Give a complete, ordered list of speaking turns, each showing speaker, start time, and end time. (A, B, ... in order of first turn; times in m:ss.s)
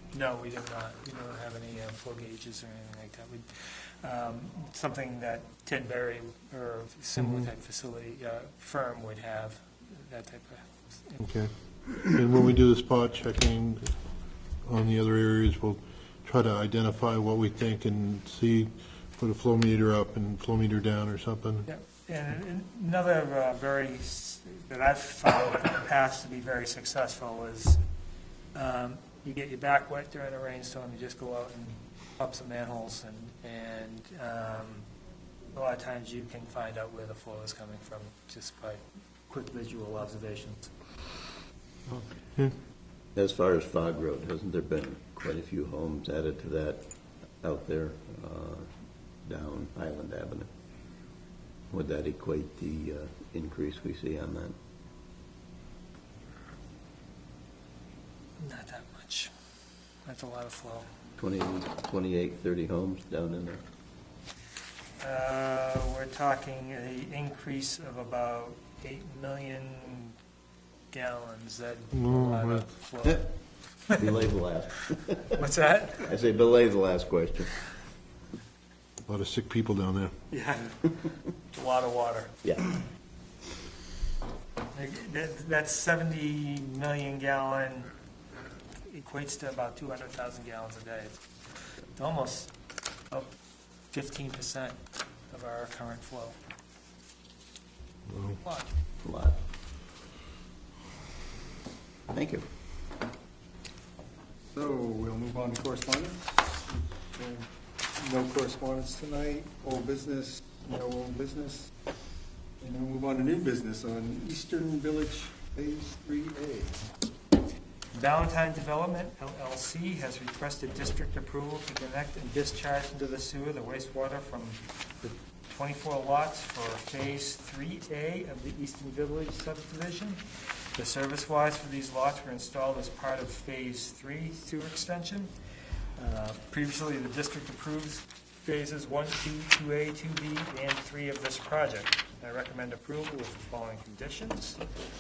0:00.1-0:11.2 A
0:07.2-0:07.5 B
0:11.2-0:21.7 B
0:21.6-0:27.8 A
0:28.5-0:34.9 A
0:35.5-0:41.0 A
0:43.2-0:48.7 C
0:49.2-0:50.5 C
0:51.7-0:54.6 C
0:58.4-0:59.3 A
1:00.0-1:00.9 A
1:01.2-1:03.6 C
1:05.0-1:10.2 A
1:10.9-1:14.1 A
1:11.9-1:12.7 B
1:14.0-1:15.4 C
1:15.3-1:16.1 A
1:16.1-1:17.7 C
1:19.0-1:20.1 B
1:20.3-1:22.4 A
1:22.4-1:22.8 C
1:24.7-1:27.9 A
1:28.8-1:32.5 A
1:33.1-1:33.4 A
1:33.9-1:36.4 A
1:38.1-1:38.4 B
1:38.4-1:38.7 A
1:39.0-1:39.4 C
1:42.1-1:42.4 C
1:44.5-1:51.7 D
1:52.6-1:56.8 D
1:57.9-2:15.3 A
2:16.0-2:24.6 A